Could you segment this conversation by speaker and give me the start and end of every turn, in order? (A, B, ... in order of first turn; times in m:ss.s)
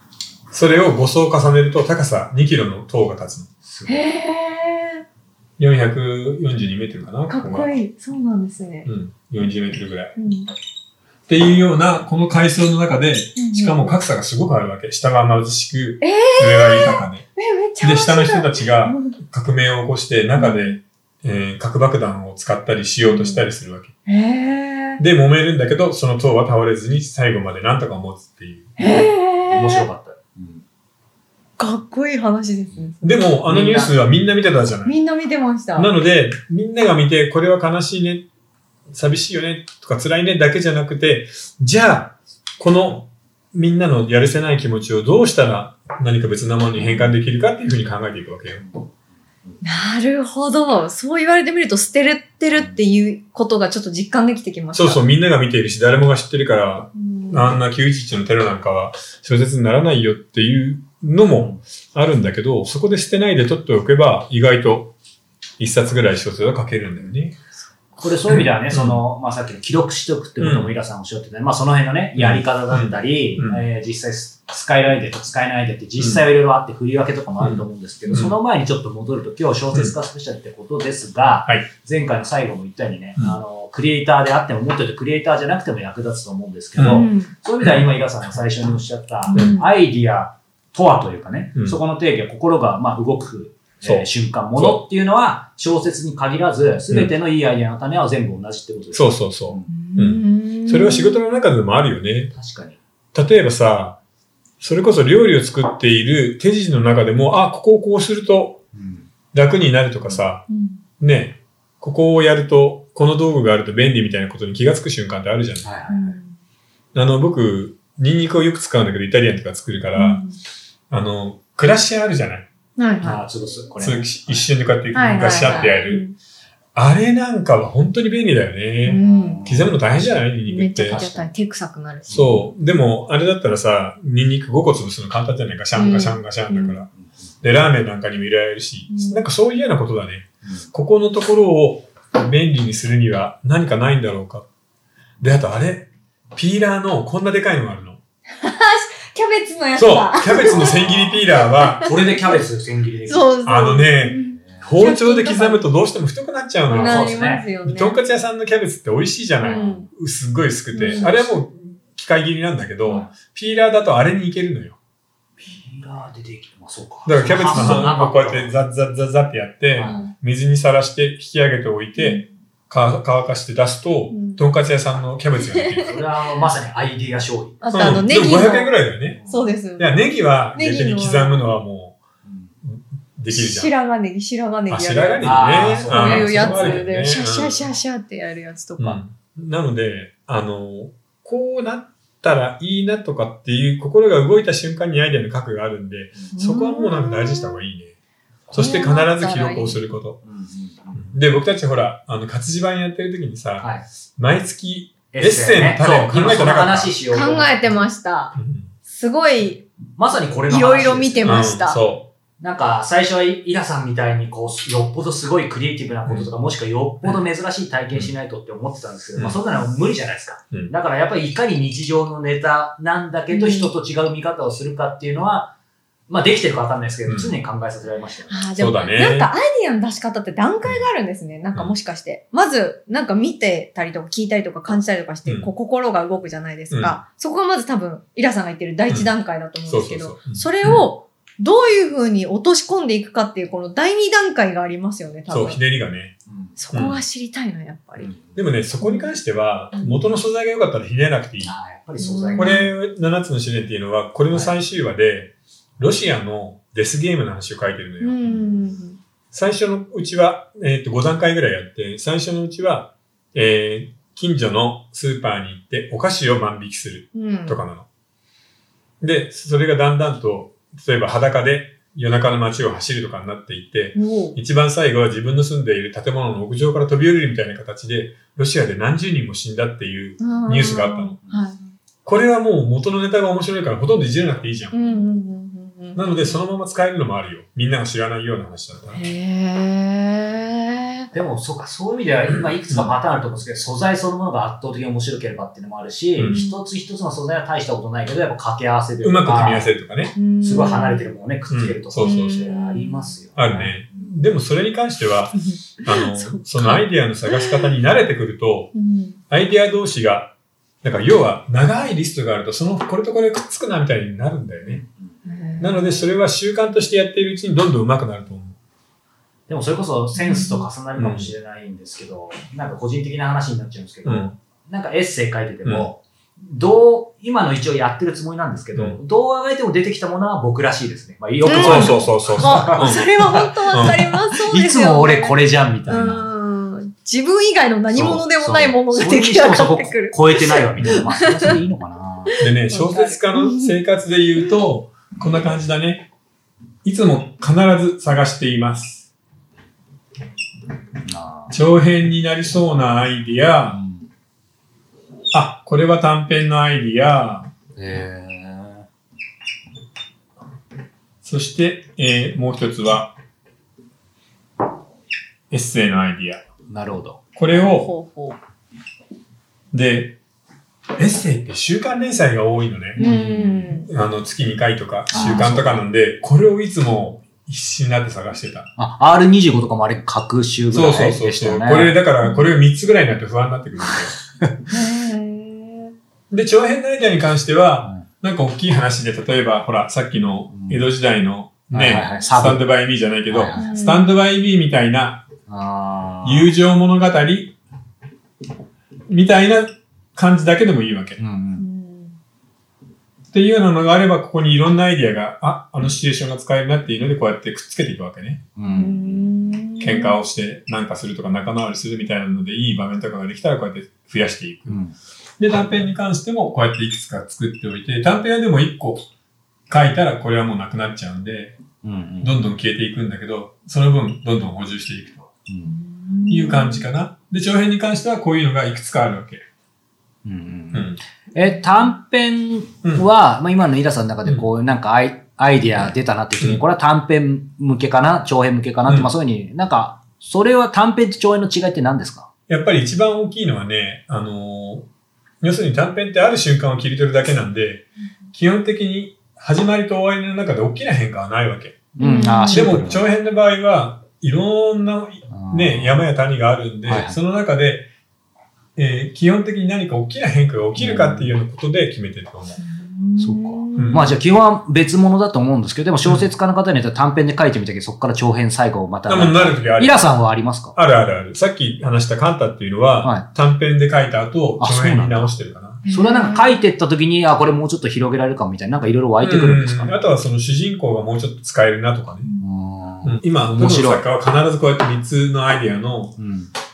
0:00.5-0:03.5 A
0:03.6-0:04.0 B
0:03.9-0:05.0 C
0:05.6-0:07.7 A
0:07.3-0:08.9 C
0:08.8-0:10.1 A
0:10.2-0:10.5 C
0:11.3-0:17.3 A
0:13.4-0:14.0 C
0:16.0-0:19.1 C
0:17.8-0:23.9 A
0:20.4-0:20.8 C
0:23.0-0:23.4 C
0:24.0-0:25.0 C
0:25.0-0:28.7 A
0:28.8-0:29.9 C
0:29.5-0:30.6 B
0:31.6-0:33.0 C
0:33.0-0:34.9 A
0:33.4-0:33.9 B
0:34.8-0:35.9 C
0:35.7-0:38.2 A
0:38.9-0:48.6 A
0:49.6-0:55.0 C
0:54.7-1:04.9 A
0:56.9-0:57.5 C
1:05.6-1:07.4 A
1:08.0-1:39.7 B
1:08.3-1:09.0 A
1:10.4-1:10.7 A
1:12.2-1:13.6 A
1:17.4-1:18.3 A
1:26.8-1:27.1 A
1:26.8-1:27.3 C
1:27.6-1:28.6 A
1:29.3-1:29.7 C
1:33.8-1:34.8 A
1:38.9-1:42.3 A
1:39.7-1:41.2 C
1:42.3-1:42.8 B
1:43.1-1:44.0 A
1:44.6-1:48.6 A
1:48.7-1:49.1 B
1:49.3-1:50.4 A
1:50.5-1:50.8 C
1:51.0-1:55.7 A
1:55.6-1:56.2 B
1:55.9-1:56.3 C
1:56.9-2:00.2 A
1:59.9-2:00.4 C
2:00.9-2:02.5 A
2:02.8-2:03.2 C
2:03.0-2:04.4 B
2:03.8-2:06.0 A
2:04.9-2:06.1 C
2:05.4-2:05.8 B
2:06.7-2:11.0 A
2:08.8-2:09.4 C
2:08.9-2:10.2 B
2:10.4-2:12.2 C
2:10.9-2:11.3 B
2:12.1-2:12.4 B
2:12.1-2:16.9 A
2:15.8-2:16.8 C
2:17.4-2:24.4 A
2:18.9-2:19.2 C
2:25.2-2:28.0 A
2:28.4-2:31.9 C
2:29.8-2:31.9 A
2:30.4-2:30.9 B
2:31.8-2:33.3 B
2:33.1-2:35.6 C
2:33.4-2:44.8 A
2:34.4-2:34.7 B
2:36.7-2:37.5 B
2:36.8-2:37.9 C
2:39.4-2:39.8 C
2:39.4-2:39.9 B
2:40.7-2:41.1 C
2:40.8-2:41.3 B
2:45.4-2:48.5 B
2:47.0-2:55.9 A
2:47.5-2:47.9 C
2:49.7-2:50.0 B
2:49.8-2:50.1 C
2:52.0-2:52.2 C
2:54.1-2:54.4 C
2:55.5-2:55.9 C
2:55.8-2:57.6 B
2:57.6-3:00.0 C
2:57.7-2:59.2 A
2:59.2-2:59.5 B
2:59.8-3:02.0 A
3:00.5-3:01.4 C
3:02.2-3:02.5 B
3:02.6-3:03.7 A
3:03.3-3:09.0 C
3:04.7-3:07.7 A
3:05.2-3:06.9 B
3:08.8-3:17.9 A
3:16.3-3:17.6 C
3:18.5-3:20.2 A
3:18.5-3:19.8 C
3:20.2-3:21.2 B
3:21.0-3:26.9 A
3:23.6-3:23.8 B
3:25.1-3:27.8 B
3:27.1-3:28.4 C
3:28.3-3:28.7 A
3:28.9-3:29.7 C
3:30.0-3:31.6 B
3:30.4-3:31.8 C
3:31.2-3:32.1 A
3:32.4-3:45.5 B
3:43.3-3:43.7 C
3:46.1-3:48.4 B
3:47.0-3:47.3 A
3:48.3-4:05.6 C
3:48.6-3:49.3 A
3:56.7-3:57.0 A
3:59.7-4:00.9 A
4:05.3-4:06.1 A
4:06.3-4:06.6 B
4:06.6-4:08.1 C
4:06.7-4:07.0 A
4:08.0-4:08.4 B
4:08.3-4:11.5 A
4:08.8-4:09.1 C
4:09.7-4:10.1 C
4:11.4-4:12.6 B
4:12.0-4:12.7 C
4:12.4-4:18.2 A
4:18.0-4:19.0 C
4:19.3-4:27.8 A
4:27.1-4:27.6 C
4:29.0-4:41.2 A
4:34.0-4:34.3 C
4:40.2-4:41.6 C
4:42.0-4:44.9 A
4:44.7-4:46.4 C
4:45.9-4:49.0 A
4:48.9-4:51.1 C
4:51.1-4:59.7 B
4:52.3-4:52.9 A
4:56.3-4:56.6 C
4:59.0-5:00.1 A
5:00.2-5:01.0 C
5:00.4-5:03.8 B
5:01.5-5:02.4 A
5:02.0-5:03.2 C
5:03.4-5:08.7 A
5:05.4-5:07.7 C
5:08.7-5:09.2 C
5:09.3-5:14.8 A
5:14.7-5:15.1 B
5:15.2-5:16.1 C
5:15.6-5:18.6 A
5:19.5-5:33.0 B
5:20.2-5:20.7 C
5:21.0-5:21.3 A
5:24.0-5:24.3 A
5:31.4-5:41.6 C
5:31.4-5:34.0 A
5:33.7-5:36.3 B
5:37.9-5:42.4 B
5:42.4-5:46.1 A
5:42.4-5:43.7 C
5:46.8-5:49.1 A
5:51.0-5:51.5 B
5:51.5-5:53.8 A
5:53.7-5:54.1 B
5:55.3-5:57.5 A
5:57.8-5:58.8 B
6:01.2-6:03.1 A
6:05.5-6:06.4 A
6:06.7-6:07.2 B
6:07.4-6:07.9 A
6:07.5-6:08.4 C
6:09.7-6:10.2 A
6:11.0-6:13.0 A
6:13.0-6:13.8 C
6:13.0-6:13.8 B
6:13.9-6:18.7 A
6:15.1-6:15.8 B
6:18.8-6:22.0 B
6:20.7-6:24.1 A
6:23.8-6:24.5 B
6:24.7-6:25.9 C
6:26.3-6:35.3 A
6:30.5-6:30.8 B
6:31.7-6:32.6 B
6:33.3-6:33.7 B
6:33.5-6:34.1 C
6:35.5-6:36.5 B
6:36.2-6:37.5 A
6:39.1-6:41.2 A
6:41.2-6:41.6 B
6:41.6-6:42.2 C
6:43.3-6:48.4 A
6:48.6-6:49.2 B
6:48.7-6:50.2 C
6:49.8-6:54.8 A
6:54.7-6:54.9 B
6:55.4-6:59.0 A
6:59.7-7:01.6 A
7:01.8-7:02.4 B
7:02.2-7:05.3 A
7:05.5-7:05.8 B
7:05.6-7:06.8 C
7:06.3-7:09.4 A
7:10.2-7:22.3 B
7:10.7-7:11.0 A
7:22.5-7:24.9 A
7:25.4-7:31.9 A
7:32.0-7:33.0 B
7:32.0-7:32.7 C
7:32.4-7:37.9 A
7:35.3-7:36.0 B
7:36.8-7:37.2 B
7:38.8-7:42.6 A
7:40.8-7:41.3 B
7:42.6-7:44.0 C
7:43.2-7:50.8 B
7:43.8-7:44.0 A
7:49.1-7:50.1 A
7:50.7-7:55.8 A
7:54.6-7:55.3 B
7:55.8-7:56.5 C
7:55.9-7:59.9 B
7:59.2-8:02.3 A
8:02.4-8:04.0 B
8:03.0-8:06.2 A
8:06.2-8:06.5 B